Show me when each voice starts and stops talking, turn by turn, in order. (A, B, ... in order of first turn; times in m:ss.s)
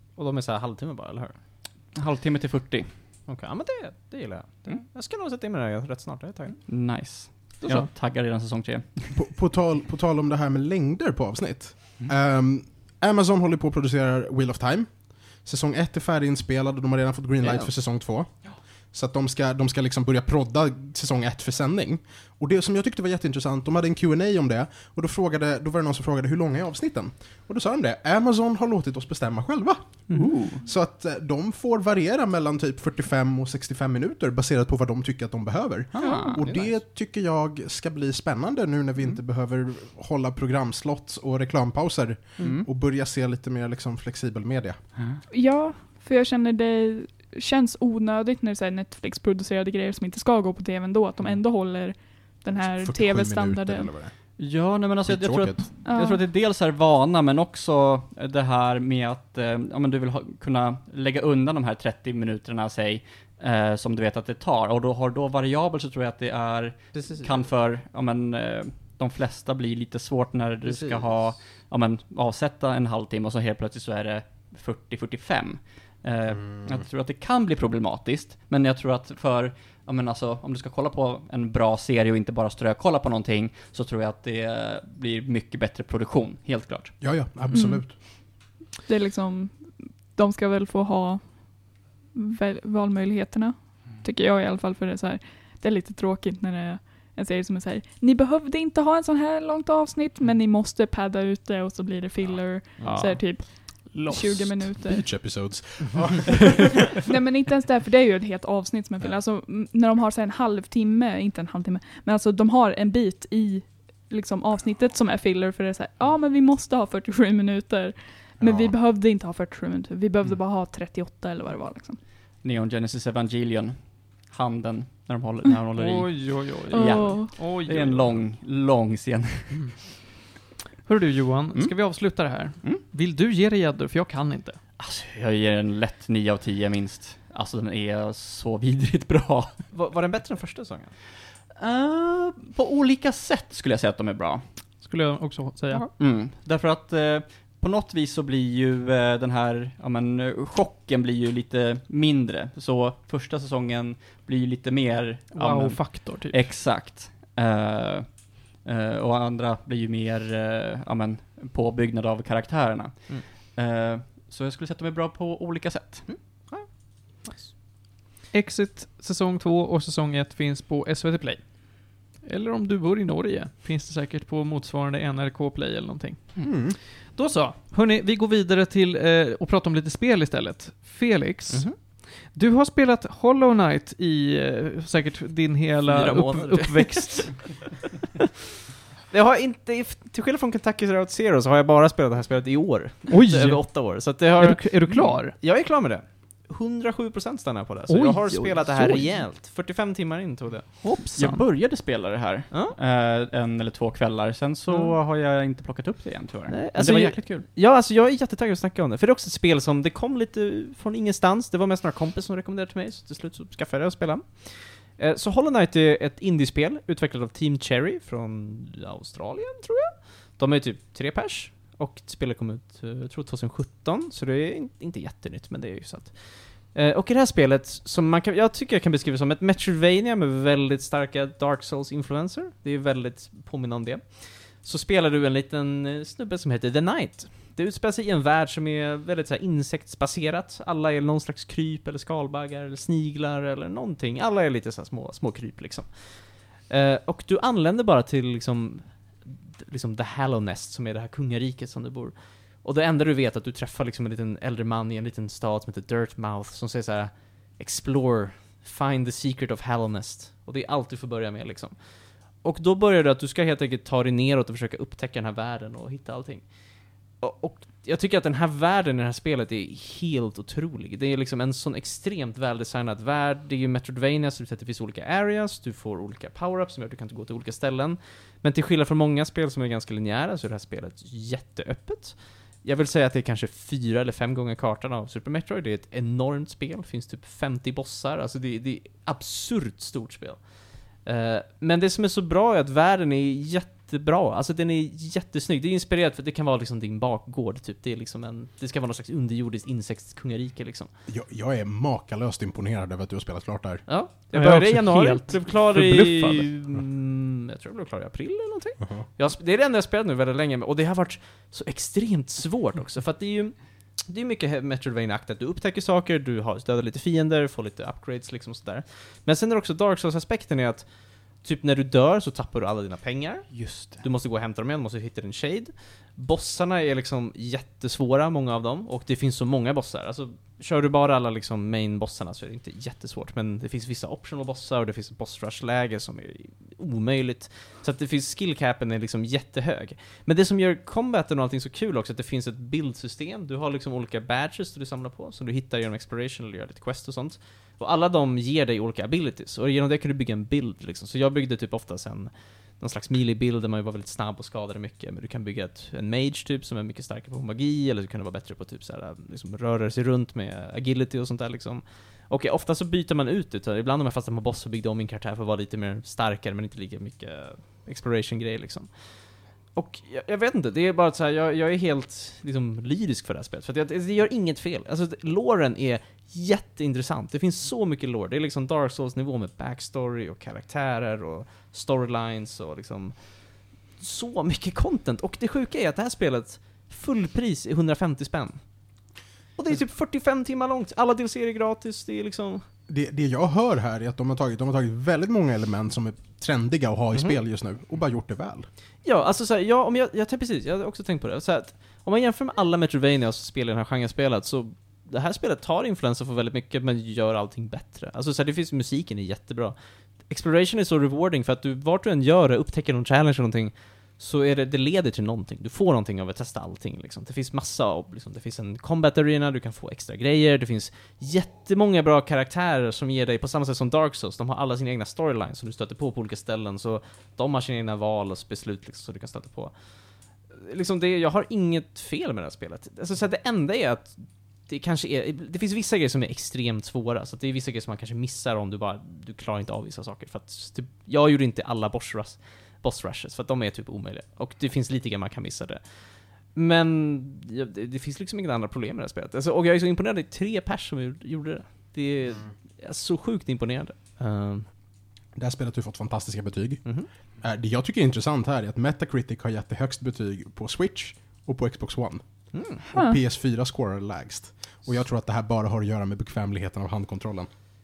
0:00.2-0:01.4 A
0:01.9-0:03.1 B
0:03.3-0:06.7 A
0:06.7-0:09.3 B
0:07.6-0:07.9 C
0:09.2-0:44.9 D
0:17.4-0:17.7 A
0:30.1-0:30.7 B
0:35.9-0:36.4 B
0:36.0-0:36.4 E
0:36.4-0:36.8 A
0:42.4-0:42.6 A
0:42.4-0:42.7 B
0:45.0-0:45.2 B
0:45.3-0:54.0 E
0:52.5-0:55.7 D
0:54.4-1:27.5 B
0:55.8-0:56.2 E
1:06.9-1:07.4 A
1:10.6-1:11.4 A
1:27.0-1:28.0 D
1:27.5-1:28.2 E
1:28.9-1:45.6 E
1:42.8-1:43.5 A
1:43.6-1:44.6 C
1:44.8-1:47.0 D
1:47.1-2:02.0 E
1:58.4-1:58.8 D
2:02.4-2:09.8 B
2:05.7-2:08.2 C
2:06.8-2:07.5 E
2:10.8-2:14.6 C
2:11.5-2:12.8 B
2:14.8-2:19.7 B
2:19.7-2:21.0 A
2:21.6-2:24.8 B
2:24.8-2:25.9 C
2:25.9-2:46.1 B
2:35.3-2:36.4 C
2:46.0-2:47.5 A
2:48.3-3:07.6 C
2:56.4-2:56.8 D
3:01.5-3:01.8 A
3:05.9-3:07.7 A
3:09.1-3:20.8 A
3:13.1-3:15.4 C
3:17.9-3:19.2 C
3:20.8-3:21.5 C
3:21.2-3:27.5 B
3:22.5-3:22.8 A
3:26.5-5:00.9 A
5:01.1-5:03.9 D
5:03.9-6:32.7 A
5:04.3-5:06.5 C
5:08.8-5:09.0 D
5:23.5-5:24.0 B
6:32.9-6:38.7 D
6:37.1-6:37.4 A
6:39.0-7:34.7 A
7:35.3-7:47.5 D
7:36.8-7:37.1 A
7:42.5-7:42.8 A
7:42.9-7:43.2 E